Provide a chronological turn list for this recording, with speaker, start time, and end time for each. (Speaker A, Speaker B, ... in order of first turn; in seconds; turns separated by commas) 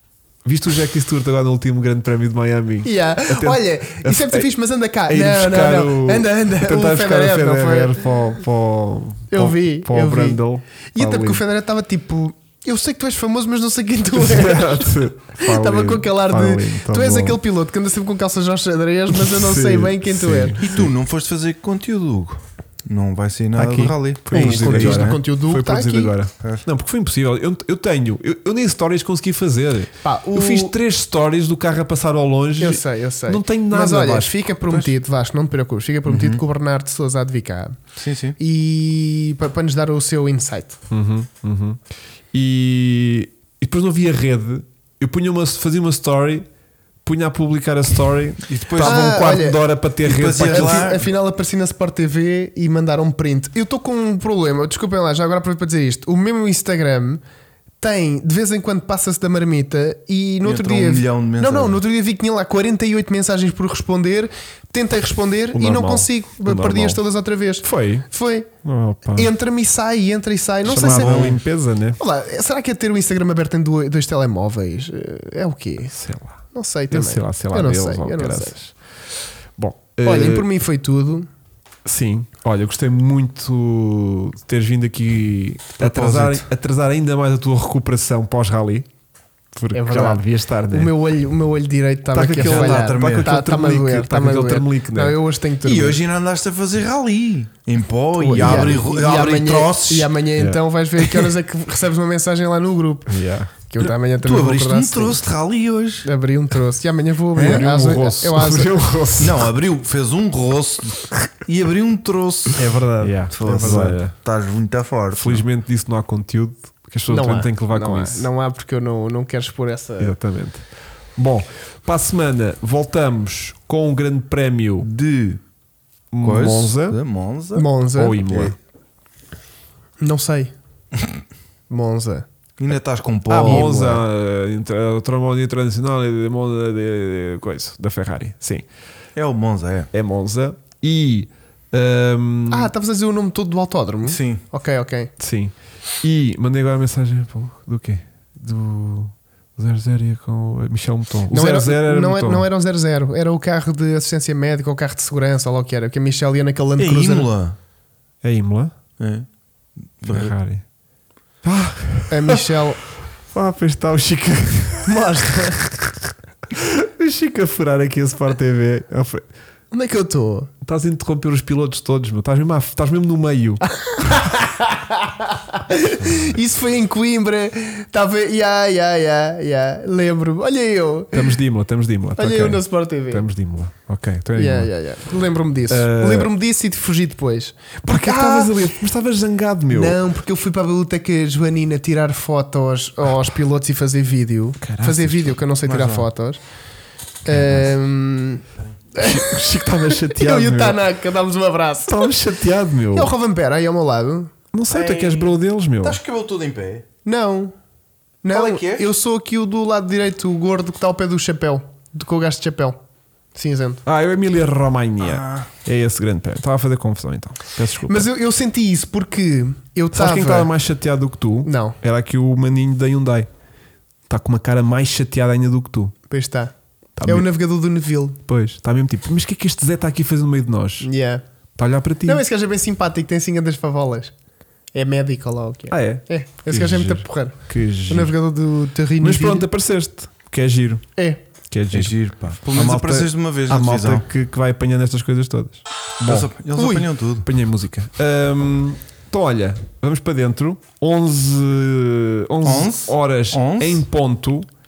Speaker A: 0.5-4.5, Speaker B: 2.8-8.1, Speaker A: 5.1-11.4, Speaker B: 9.3-10.4, Speaker B: 10.9-20.6, Speaker A: 14.2-17.4, Speaker A: 19.1-20.9, Speaker C: 20.6-25.2, Speaker A: 23.6-34.5, Speaker B: 24.3-26.1, Speaker B: 30.0-30.8, Speaker B: 32.6-37.8, Speaker C: 34.7-34.9, Speaker C: 36.1-36.4, Speaker C: 38.0-38.4, Speaker B: 38.4-40.8, Speaker A: 40.9-41.8, Speaker A: 42.3-46.5, Speaker A: 47.0-50.9, Speaker C: 48.5-49.2, Speaker B: 48.8-49.7, Speaker C: 50.0-51.1, Speaker B: 50.4-57.2, Speaker B: 57.8-68.5, Speaker C: 60.4-61.8, Speaker A: 65.5-67.0, Speaker A: 67.6-68.1, Speaker A: 68.6-69.3, Speaker B: 69.1-71.4, Speaker A: 70.7-72.0, Speaker C: 70.7-71.4, Speaker B: 72.0-76.0, Speaker A: 75.9-78.7, Speaker B: 76.5-78.5, Speaker A: 79.6-80.5, Speaker B: 80.0-81.3, Speaker A: 81.8-88.9, Speaker C: 85.8-86.5, Speaker A: 89.5-90.9, Speaker B: 89.7-96.0, Speaker A: 92.1-95.2, Speaker C: 92.4-93.3, Speaker C: 95.6-100.2, Speaker B: 98.2-105.2, Speaker A: 98.3-98.8, Speaker A: 103.1-103.5, Speaker C: 104.2-106.1, Speaker B: 106.0-108.7, Speaker A: 107.4-109.5, Speaker C: 109.2-115.5, Speaker B: 112.6-113.1, Speaker A: 113.0-114.2, Speaker A: 115.2-118.3, Speaker B: 117.1-120.2, Speaker A: 120.0-120.7, Speaker A: 121.2-124.9, Speaker C: 124.8-125.4, Speaker A: 126.1-127.0, Speaker C: 126.2-127.7, Speaker B: 127.5-128.4, Speaker A: 128.0-128.6, Speaker C: 128.2-128.5, Speaker B: 130.0-130.5, Speaker B: 131.7-132.3, Speaker C: 132.6-134.0, Speaker A: 133.3-138.6, Speaker B: 133.4-133.8, Speaker C: 139.2-139.9, Speaker A: 139.9-142.7, Speaker B: 142.5-145.1, Speaker C: 144.1-144.4, Speaker A: 145.2-152.5, Speaker B: 151.3-157.3, Speaker C: 156.8-157.6, Speaker A: 158.2-158.7, Speaker C: 159.0-159.3, Speaker C: 160.0-160.3, Speaker A: 160.1-160.6, Speaker A: 161.4-162.6, Speaker B: 162.1-162.8, Speaker A: 163.3-169.2, Speaker B: 164.8-165.6, Speaker B: 169.7-170.5, Speaker A: 170.6-174.2, Speaker B: 173.6-181.4, Speaker A: 181.1-184.7, Speaker B: 182.2-183.3, Speaker B: 184.4-188.7, Speaker A: 185.7-186.3, Speaker A: 187.8-190.0, Speaker B: 189.7-196.4, Speaker A: 194.6-195.4, Speaker C: 195.6-196.1, Speaker B: 197.2-202.1, Speaker A: 197.3-197.7, Speaker A: 199.0-200.8, Speaker A: 201.9-203.1, Speaker B: 202.9-204.3, Speaker A: 204.5-206.0, Speaker C: 204.7-206.8, Speaker B: 207.1-207.5, Speaker B: 208.2-212.8, Speaker C: 208.3-208.9, Speaker B: 213.3-213.8, Speaker A: 213.9-218.1, Speaker C: 215.0-215.5, Speaker B: 217.9-220.5, Speaker A: 219.9-223.3, Speaker B: 221.4-221.8, Speaker A: 224.1-225.9, Speaker B: 226.1-226.5, Speaker A: 227.0-227.3, Speaker B: 227.1-228.2, Speaker A: 228.3-230.9, Speaker B: 230.8-231.2, Speaker A: 231.6-232.2, Speaker B: 232.1-234.1, Speaker B: 234.7-239.5, Speaker A: 235.7-238.1, Speaker A: 239.0-240.9, Speaker A: 241.5-246.3, Speaker C: 241.7-244.1, Speaker C: 246.1-247.3, Speaker B: 246.6-246.9, Speaker A: 247.2-254.5, Speaker C: 252.4-253.9